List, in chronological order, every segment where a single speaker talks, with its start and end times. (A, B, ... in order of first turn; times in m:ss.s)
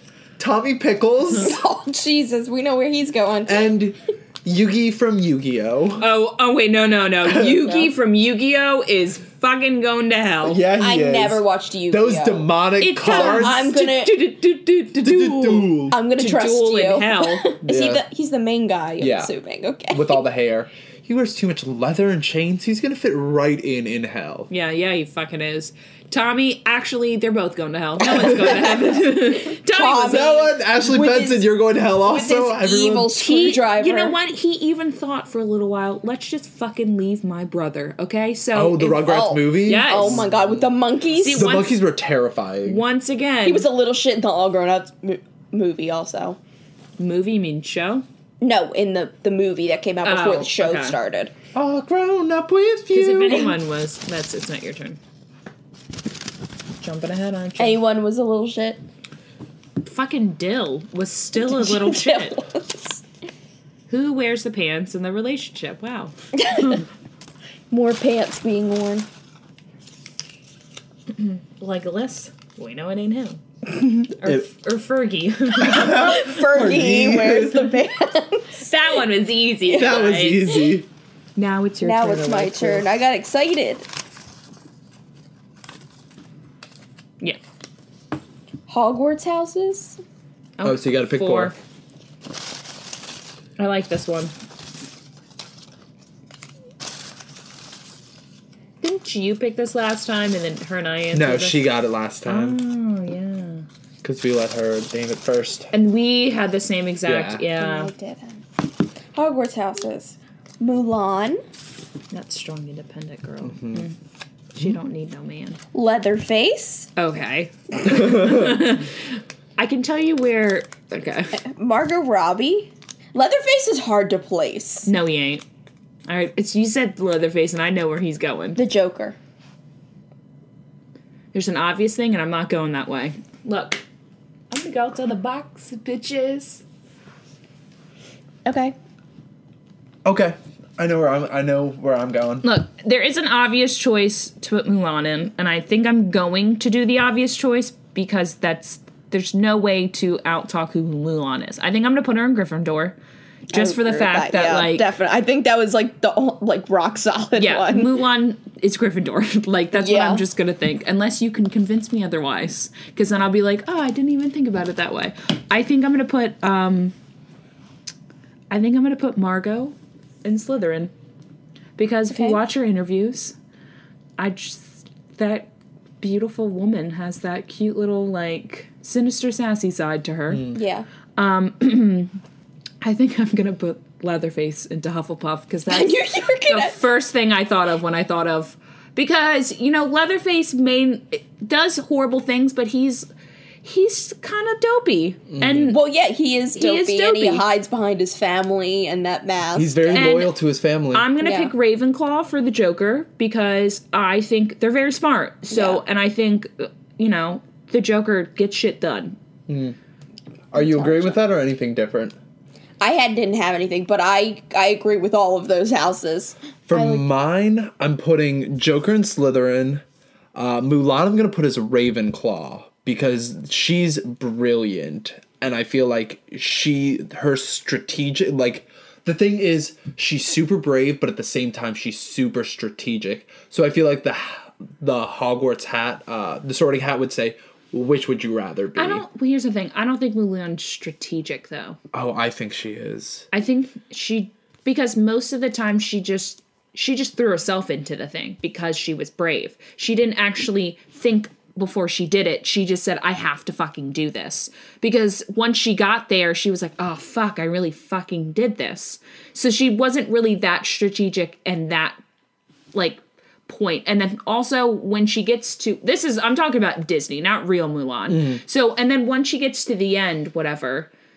0:00.4-0:01.6 A
0:01.3-0:03.7 B
0:03.4-0:06.1 A
0:06.0-0:10.6 C
0:07.2-0:07.6 A
0:07.4-0:07.9 B
0:10.4-0:13.7 A
0:10.8-0:12.5 B
0:12.8-0:17.5 C
0:13.0-0:14.2 B
0:15.0-0:16.0 A
0:15.9-0:20.2 B
0:17.6-0:18.0 A
0:19.0-0:19.3 A
0:19.9-0:24.5 A
0:24.5-0:30.5 C
0:28.1-0:34.2 B
0:30.0-0:33.1 A
0:33.2-0:40.2 C
0:38.5-0:40.7 A
0:39.0-0:41.6 B
0:41.1-0:41.8 C
0:41.3-0:42.8 A
0:42.6-0:43.7 C
0:43.4-0:46.4 B
0:47.0-0:48.0 C
0:48.4-0:51.3 B
0:50.0-0:51.0 C
0:51.5-0:53.5 A
0:52.9-0:55.0 C
0:56.8-0:57.8 C
0:57.6-0:58.8 B
0:59.8-1:02.4 C
1:01.4-1:03.0 B
1:03.9-1:06.8 C
1:06.4-1:06.8 B
1:07.7-1:09.1 B
1:11.1-1:13.4 C
1:14.1-1:16.3 C
1:14.2-1:14.5 A
1:15.6-1:17.8 A
1:15.8-1:18.6 B
1:18.6-1:20.6 C
1:19.6-1:20.0 B
1:19.8-1:20.9 A
1:21.4-1:22.9 C
1:21.8-1:23.9 B
1:28.7-1:30.0 B
1:30.6-1:31.6 C
1:30.6-1:31.5 A
1:33.6-1:34.3 C
1:38.8-1:41.7 C
1:41.1-1:42.6 A
1:42.2-1:43.6 C
1:44.0-1:45.7 A
1:45.7-1:47.9 C
1:47.0-1:47.5 A
1:47.6-1:48.4 B
1:49.1-1:51.4 B
1:52.1-1:53.9 C
1:53.4-1:53.9 A
1:54.5-1:55.6 C
1:55.7-1:56.9 B
1:57.0-2:01.4 C
1:57.9-1:58.5 A
2:01.4-2:04.9 B
2:04.8-2:05.4 C
2:06.1-2:08.6 C
2:08.6-2:09.2 B
2:11.3-2:13.8 C
2:14.5-2:16.6 C
2:18.4-2:18.7 B
2:20.0-2:22.4 A
2:22.4-2:33.0 C
2:33.5-2:34.9 C
2:33.5-2:38.0 B
2:37.4-2:46.9 C
2:39.7-2:40.2 B
2:48.5-2:50.9 C
2:51.8-2:53.4 C
2:52.1-2:52.4 B
2:54.2-2:55.5 C
2:56.0-3:00.5 C
3:00.3-3:00.6 A
3:00.5-3:00.9 B
3:01.2-3:02.2 C
3:02.8-3:13.1 C
3:05.7-3:06.8 B
3:13.6-3:15.8 C
3:15.3-3:15.7 A
3:15.7-3:20.1 B
3:16.6-3:17.4 C
3:19.6-3:21.1 A
3:19.9-3:20.4 C
3:20.9-3:29.2 C
3:21.2-3:21.5 B
3:25.5-3:25.8 B
3:29.5-3:29.8 A
3:30.5-3:32.2 A
3:30.5-3:31.2 B
3:32.8-3:37.1 B
3:36.7-3:39.8 A
3:40.3-3:59.0 A
3:58.8-4:01.8 C
4:01.9-4:03.3 A
4:03.3-4:22.0 C
4:22.7-4:30.9 C
4:28.1-4:28.4 A